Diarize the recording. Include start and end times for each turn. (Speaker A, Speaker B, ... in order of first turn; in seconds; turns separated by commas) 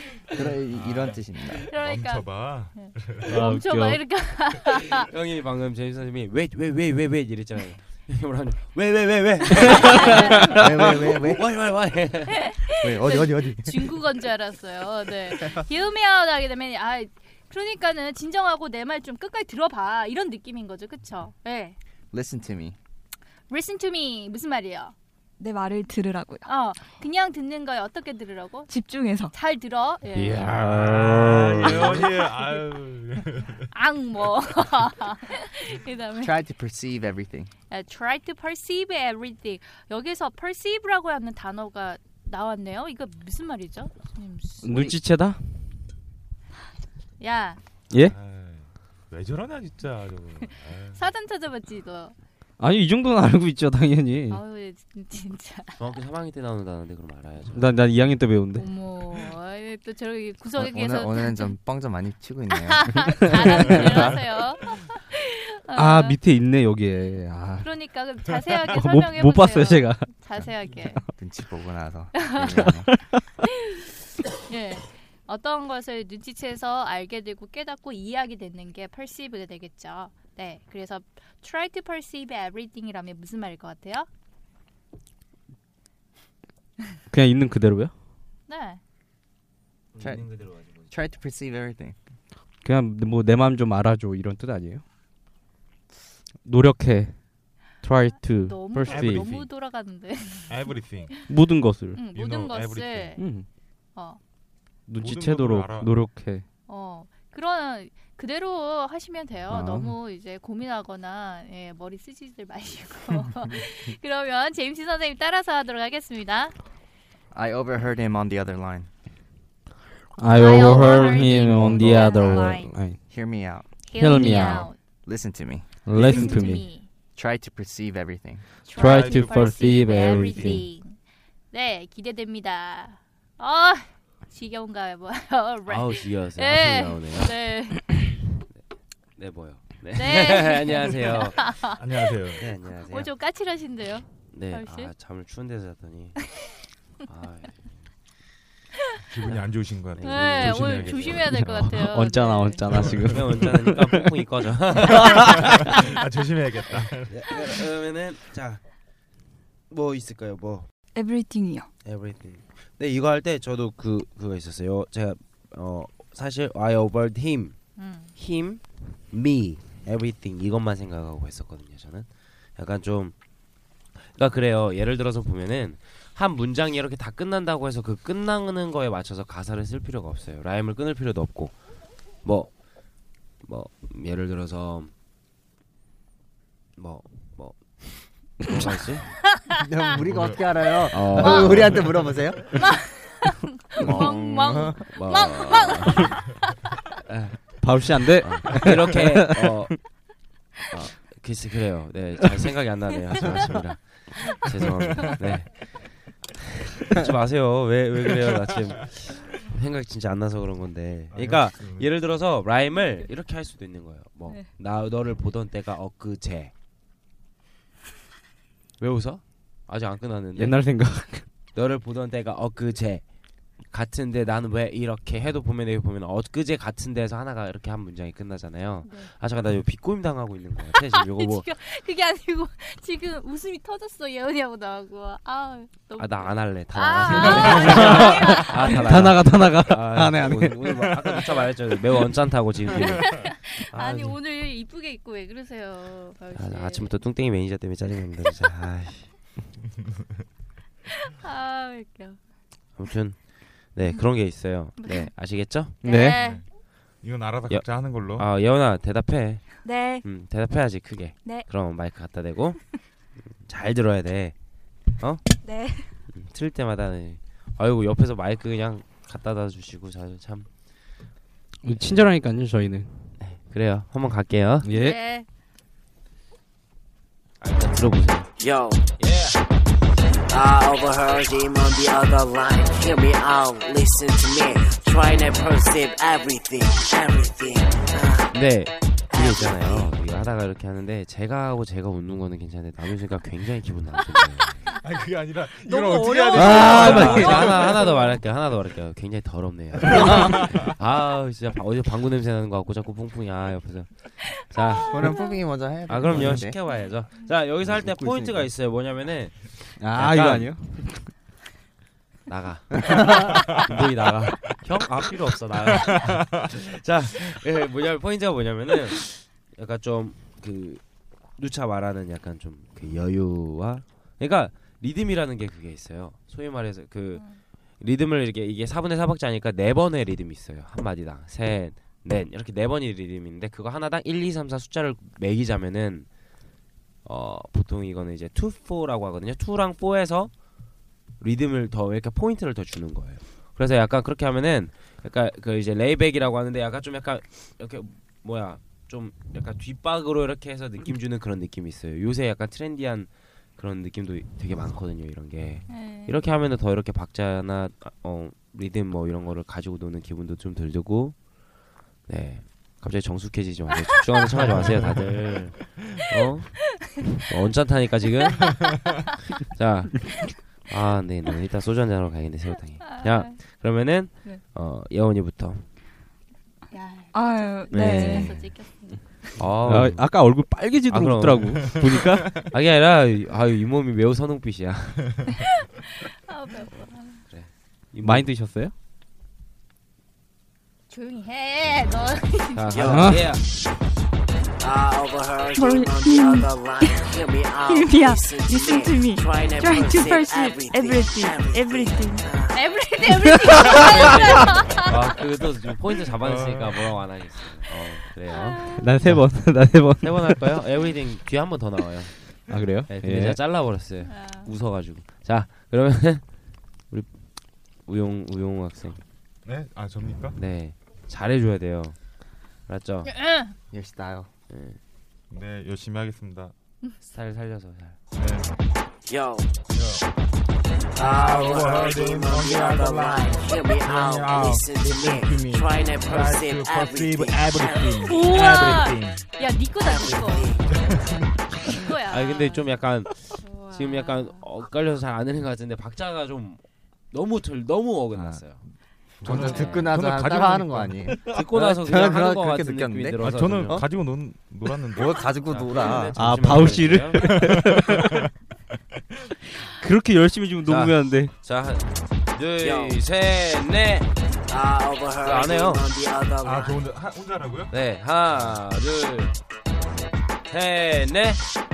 Speaker A: 0.3-1.7, Speaker B: 0.7-3.5, Speaker C: 1.7-5.1, Speaker D: 3.3-4.0, Speaker E: 4.9-12.5, Speaker C: 9.6-10.5, Speaker A: 10.3-11.5, Speaker C: 12.3-21.8, Speaker A: 12.8-13.9, Speaker A: 22.1-22.8, Speaker C: 23.5-24.9, Speaker F: 25.4-26.5, Speaker C: 26.5-28.7, Speaker F: 28.7-29.4, Speaker C: 29.3-30.5, Speaker D: 30.1-32.2, Speaker B: 30.4-33.7, Speaker C: 33.7-36.4, Speaker A: 36.2-37.5, Speaker C: 37.7-45.0, Speaker D: 44.6-45.7, Speaker C: 47.2-47.6, Speaker B: 47.9-51.0, Speaker C: 51.0-52.1, Speaker D: 52.6-54.4, Speaker C: 54.3-55.8, Speaker E: 55.8-57.8, Speaker D: 57.5-58.7, Speaker C: 58.6-61.5, Speaker A: 60.5-64.1, Speaker C: 62.5-66.2, Speaker D: 63.4-63.8, Speaker D: 65.8-67.8, Speaker C: 67.6-71.0, Speaker D: 68.7-70.1, Speaker A: 71.2-72.9, Speaker C: 72.2-72.6, Speaker D: 72.6-73.0, Speaker C: 74.5-84.1, Speaker D: 87.1-87.9, Speaker C: 88.5-88.8, Speaker E: 89.9-90.9, Speaker A: 90.0-90.3, Speaker A: 90.9-92.0, Speaker D: 92.6-94.8, Speaker D: 96.5-97.2, Speaker D: 97.8-99.3, Speaker C: 98.2-100.5, Speaker B: 98.9-99.5, Speaker B: 100.5-101.2, Speaker D: 101.3-102.0, Speaker C: 101.9-103.2, Speaker B: 102.1-103.2, Speaker D: 103.2-103.5, Speaker D: 104.9-106.5, Speaker B: 105.0-106.0, Speaker C: 106.7-116.5, Speaker D: 109.5-109.9, Speaker A: 117.3-118.9, Speaker D: 120.2-123.0, Speaker C: 120.3-122.8, Speaker B: 120.7-121.0, Speaker B: 121.8-122.1, Speaker A: 123.1-123.7, Speaker C: 123.9-124.8, Speaker D: 124.0-124.7, Speaker A: 124.2-124.5, Speaker A: 125.0-125.9, Speaker D: 125.8-126.7, Speaker C: 125.9-126.9, Speaker A: 127.2-128.4, Speaker C: 128.7-131.0, Speaker B: 128.8-130.6, Speaker D: 128.8-130.7, Speaker C: 131.5-137.9, Speaker E: 135.7-137.4, Speaker E: 139.2-141.4, Speaker C: 139.9-141.8, Speaker B: 141.8-142.5, Speaker E: 142.4-143.1, Speaker C: 142.9-144.9, Speaker E: 144.3-146.2, Speaker E: 147.1-147.9, Speaker B: 149.1-151.2, Speaker E: 149.2-151.3, Speaker C: 150.0-152.6, Speaker D: 151.3-154.1, Speaker B: 152.6-153.5, Speaker E: 153.1-155.8, Speaker B: 154.8-157.3, Speaker E: 156.7-158.6, Speaker E: 159.7-160.7, Speaker F: 160.9-161.7, Speaker E: 161.8-167.6, Speaker C: 167.8-168.1, Speaker E: 168.2-173.1, Speaker E: 174.0-181.6, Speaker E: 182.2-182.6, Speaker E: 183.4-184.9, Speaker E: 186.8-189.2, Speaker A: 189.6-192.4, Speaker B: 190.0-190.6, Speaker E: 190.9-191.9, Speaker C: 191.2-191.7, Speaker B: 191.7-192.3, Speaker C: 192.6-196.2, Speaker D: 193.8-194.1, Speaker E: 193.8-196.1, Speaker A: 194.4-194.8, Speaker E: 197.1-197.4, Speaker D: 197.6-199.7, Speaker E: 198.0-199.8, Speaker E: 200.7-206.2, Speaker E: 206.9-216.5, Speaker B: 211.1-211.9, Speaker E: 218.8-220.6, Speaker D: 220.4-221.3, Speaker E: 221.5-223.1, Speaker E: 223.7-231.5, Speaker C: 228.8-229.1, Speaker C: 230.9-238.8, Speaker E: 236.0-244.2, Speaker D: 237.6-240.7, Speaker B: 240.9-241.4, Speaker B: 242.9-243.2, Speaker C: 243.0-247.0, Speaker E: 246.3-249.1, Speaker C: 251.0-252.2, Speaker E: 252.8-255.8, Speaker C: 254.8-255.1, Speaker D: 255.8-256.2, Speaker C: 255.8-256.4, Speaker B: 256.1-256.5, Speaker B: 257.0-258.3, Speaker E: 257.5-264.4, Speaker F: 259.6-260.1, Speaker E: 264.9-265.2, Speaker F: 265.4-265.9, Speaker E: 266.1-270.5, Speaker D: 271.6-273.2, Speaker E: 271.8-272.1, Speaker E: 273.2-274.7, Speaker D: 274.6-275.0, Speaker C: 274.7-275.3, Speaker E: 277.4-278.3, Speaker G: 278.4-278.9, Speaker E: 279.0-279.4, Speaker G: 280.3-288.5, Speaker E: 288.3-294.7, Speaker G: 289.1-289.9, Speaker B: 294.8-297.9, Speaker C: 295.6-298.2, Speaker D: 296.3-297.6, Speaker E: 296.3-305.1, Speaker B: 299.8-300.8, Speaker C: 304.9-305.4, Speaker A: 304.9-306.6, Speaker E: 305.9-310.5, Speaker A: 307.6-308.5, Speaker D: 309.8-311.1, Speaker E: 312.3-320.8, Speaker B: 313.4-313.6, Speaker B: 315.8-316.4, Speaker E: 321.4-336.1, Speaker C: 327.1-327.4, Speaker E: 337.1-340.3, Speaker E: 341.2-361.2, Speaker C: 355.7-356.2, Speaker E: 362.1-368.6, Speaker B: 364.4-365.8, Speaker E: 369.5-375.7, Speaker C: 372.9-373.6, Speaker C: 376.7-379.3, Speaker F: 377.1-378.5, Speaker E: 377.7-378.5, Speaker E: 379.4-381.8, Speaker D: 379.6-382.4, Speaker B: 381.6-382.5, Speaker E: 382.4-385.3, Speaker C: 386.1-387.2, Speaker E: 387.3-388.3, Speaker D: 388.0-388.7, Speaker C: 390.9-392.8, Speaker E: 392.5-393.4, Speaker G: 392.7-393.3, Speaker D: 392.9-393.3, Speaker G: 394.6-402.6, Speaker F: 395.6-397.2, Speaker F: 397.7-402.3, Speaker C: 402.5-404.9, Speaker E: 403.7-419.0, Speaker B: 406.2-407.0, Speaker C: 408.3-408.9, Speaker D: 408.7-410.5, Speaker D: 412.5-413.4, Speaker C: 414.1-414.5, Speaker B: 419.4-420.4, Speaker E: 420.4-423.1, Speaker C: 423.1-423.6, Speaker A: 423.7-424.3, Speaker E: 424.5-424.8, Speaker B: 425.3-426.5, Speaker E: 427.0-428.0, Speaker B: 428.2-428.5, Speaker G: 429.1-429.5, Speaker B: 429.7-430.0, Speaker G: 430.9-438.4, Speaker B: 430.9-439.3, Speaker C: 438.1-440.5, Speaker G: 439.8-440.7, Speaker B: 440.7-441.3, Speaker C: 441.7-442.7, Speaker E: 442.1-448.6, Speaker C: 443.4-444.4, Speaker A: 449.2-453.9, Speaker B: 449.2-451.2, Speaker E: 449.2-449.9, Speaker E: 451.3-453.9, Speaker B: 453.2-455.3, Speaker A: 454.9-456.2, Speaker E: 455.5-457.5, Speaker D: 456.2-458.0, Speaker B: 457.1-458.2, Speaker D: 459.8-461.3, Speaker E: 460.7-464.1, Speaker G: 462.6-463.0, Speaker G: 464.5-466.8, Speaker E: 465.2-465.9, Speaker B: 466.4-467.7, Speaker E: 467.7-469.3, Speaker E: 470.5-471.4